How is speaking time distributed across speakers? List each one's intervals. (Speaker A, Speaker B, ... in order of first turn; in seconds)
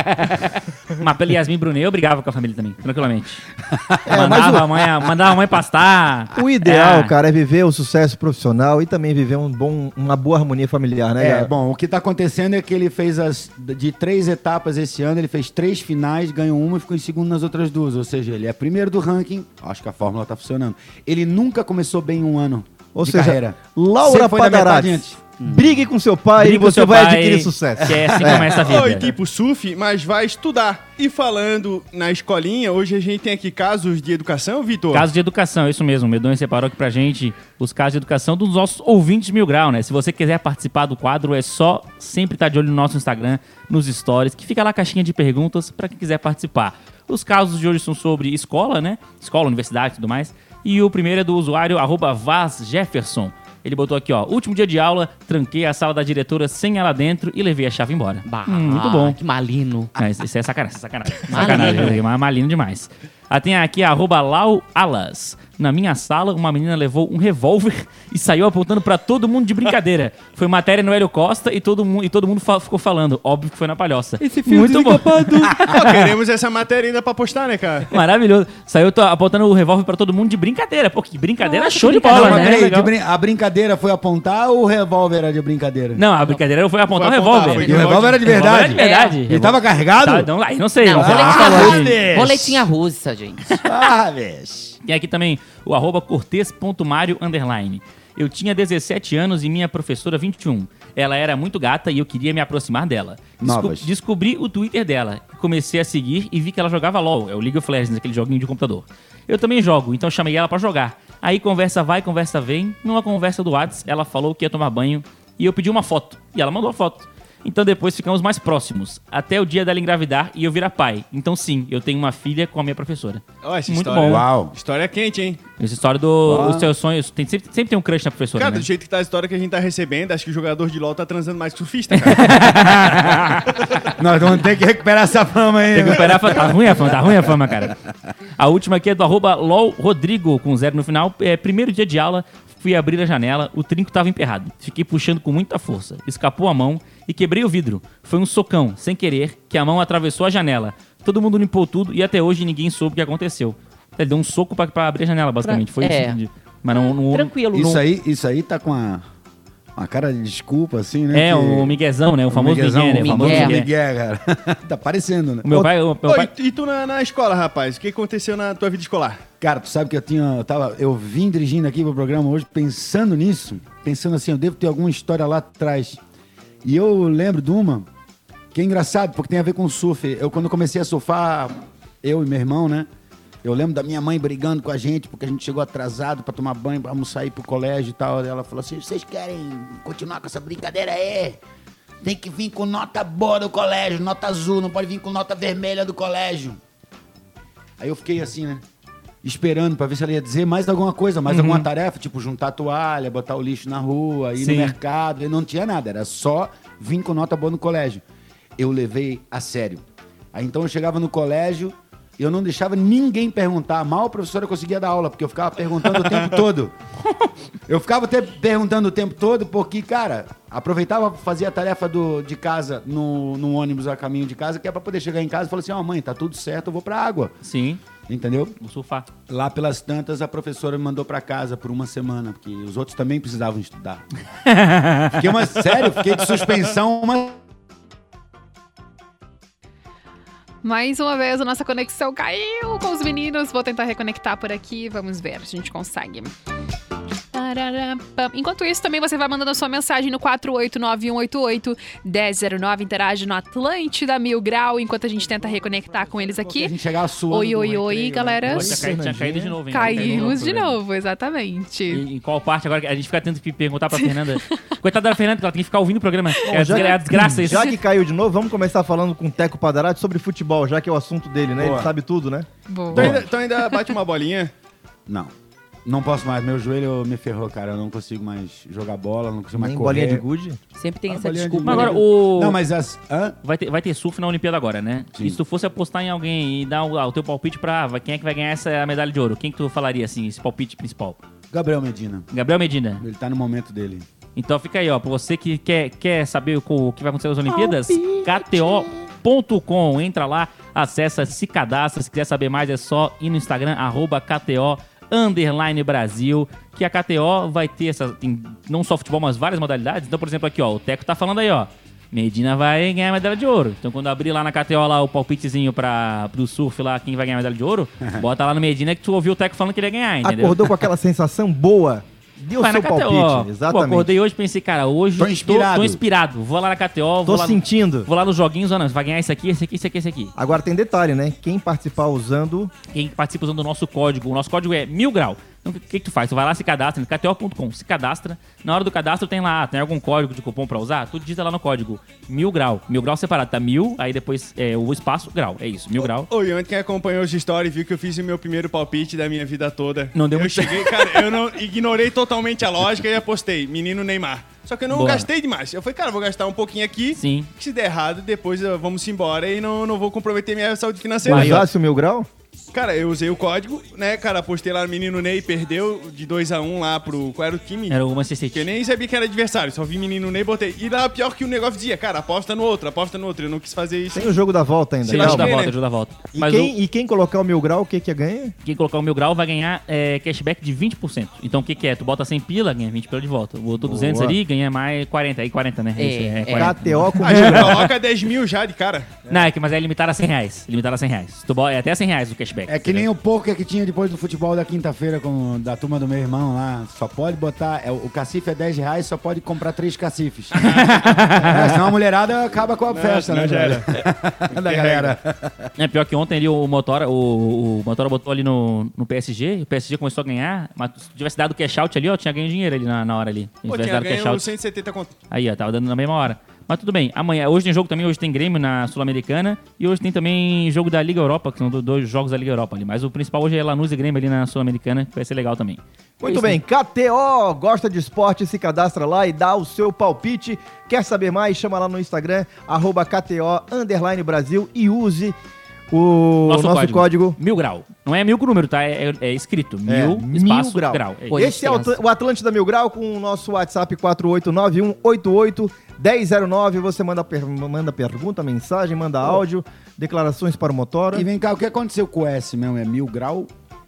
Speaker A: 1.0-3.4, 4.1-7.1, 26.4-29.1, 34.9-59.2, 60.0-76.0, 77.9-82.9, 86.0-92.0, 94.8-124.2, 125.6-128.7, 132.0-133.5, 135.7-137.8, 138.4-157.4, 161.1-163.7, 165.4-166.3, 201.3-201.7, 204.4-204.7, 227.4-227.8, 228.6-229.1, 234.4-235.3, 258.4-260.8, 261.9-267.7, 281.6-282.6, 283.4-291.2, 292.3-293.0, 294.4-320.8, 322.6-330.3, 332.9-346.3, 350.1-351.3, 354.9-355.3, 357.1-357.5, 361.2-361.6, 367.9-368.7, 375.1-376.7, 378.6-387.9, 389.3-393.1, 400.6-401.9, 405.8-414.5, 415.3-425.8, 436.4-441.4
Speaker B: 3.7-4.5, 11.2-25.2, 28.0-28.4, 75.4-75.7, 82.1-86.0, 87.7-90.3, 90.9-92.7, 93.6-94.8, 103.4-103.9, 124.0-124.5, 126.2-126.7, 134.0-136.5, 157.5-159.0, 159.8-161.8, 162.3-165.7, 169.4-176.0, 176.6-177.9, 178.5-182.9, 183.4-191.4, 192.0-196.6, 197.8-198.6, 199.2-208.0, 208.6-216.7, 217.7-227.3, 228.1-228.6, 229.3-234.0, 235.1-237.4, 255.2-258.9, 271.6-271.9, 275.1-275.3, 275.8-280.2, 281.1-283.4, 291.5-292.3, 293.0-294.1, 325.2-326.0, 392.7-405.7, 451.1-453.5
Speaker C: 4.0-4.8, 6.3-11.5, 22.9-28.5, 258.5-260.3, 266.4-273.2, 279.6-280.6, 297.5-298.9, 320.2-324.1, 327.2-328.1, 330.4-332.7, 361.2-362.3, 374.1-375.6, 376.3-378.5, 383.8-384.4, 386.5-387.8, 426.2-435.4, 435.9-437.4, 439.9-451.3
Speaker D: 28.5-35.1, 75.6-77.9, 86.9-88.4, 123.4-125.4, 128.3-132.5, 166.1-169.2, 272.9-274.5, 346.0-361.6, 362.7-368.0, 368.5-374.3, 375.0-375.7, 387.2-389.2, 402.9-404.0, 404.6-405.1, 413.7-415.1
Speaker E: 58.2-59.9, 61.3-62.0, 74.2-75.5, 81.4-82.6, 88.7-89.2, 90.8-93.6, 155.4-157.8, 163.0-163.6, 280.7-282.0, 386.0-386.7, 426.2-426.5, 441.3-442.0
Speaker F: 240.6-246.3, 247.3-256.8, 257.3-258.8, 259.7-262.0, 264.1-264.6, 272.7-273.1